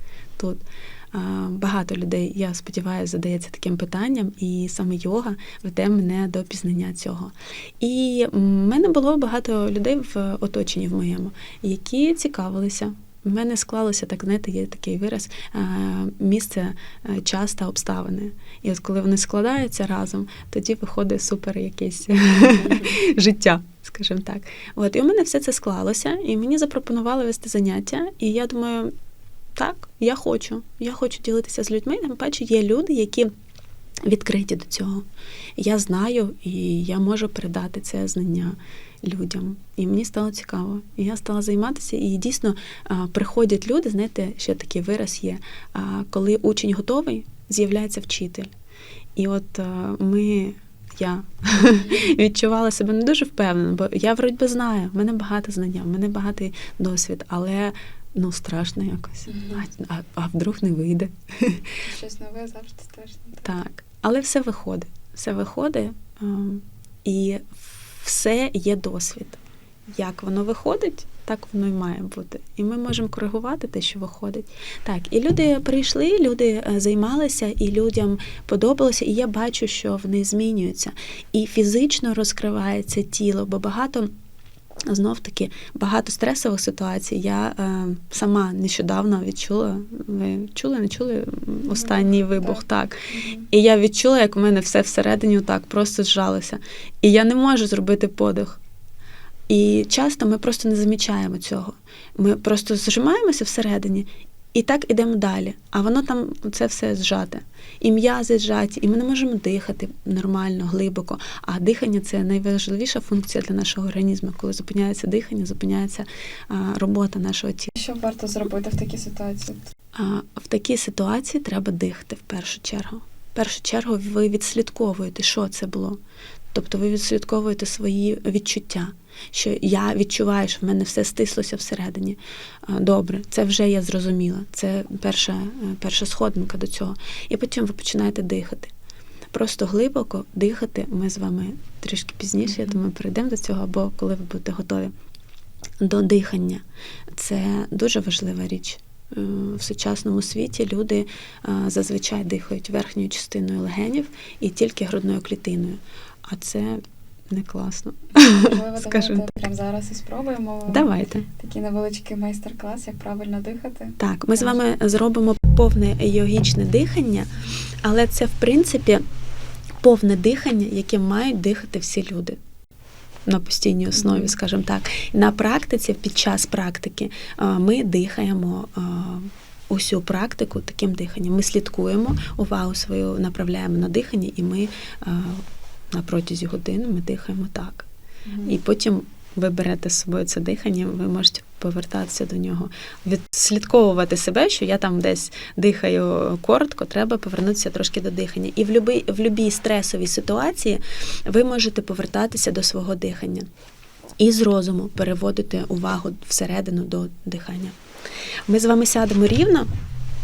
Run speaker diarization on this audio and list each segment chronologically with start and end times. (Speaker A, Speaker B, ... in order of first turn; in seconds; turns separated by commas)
Speaker A: 0.4-28.9, Speaker A: 29.6-33.3, Speaker A: 34.1-35.1, Speaker A: 35.6-48.5, Speaker A: 49.2-61.8, Speaker B: 59.3-59.6, Speaker B: 61.8-63.5, Speaker A: 63.4-69.4, Speaker A: 70.0-84.1, Speaker A: 84.9-98.6, Speaker B: 91.7-93.5, Speaker A: 99.5-117.7, Speaker B: 117.8-119.7, Speaker A: 119.9-126.0, Speaker A: 126.5-138.7, Speaker A: 139.3-144.9, Speaker A: 145.8-159.3, Speaker B: 158.2-164.6, Speaker A: 160.7-161.3, Speaker A: 164.0-167.3, Speaker A: 167.8-169.0, Speaker A: 169.8-172.4, Speaker A: 173.3-187.9, Speaker B: 174.0-174.3, Speaker B: 188.3-188.5, Speaker A: 188.4-203.5, Speaker A: 204.2-207.8, Speaker A: 208.5-209.7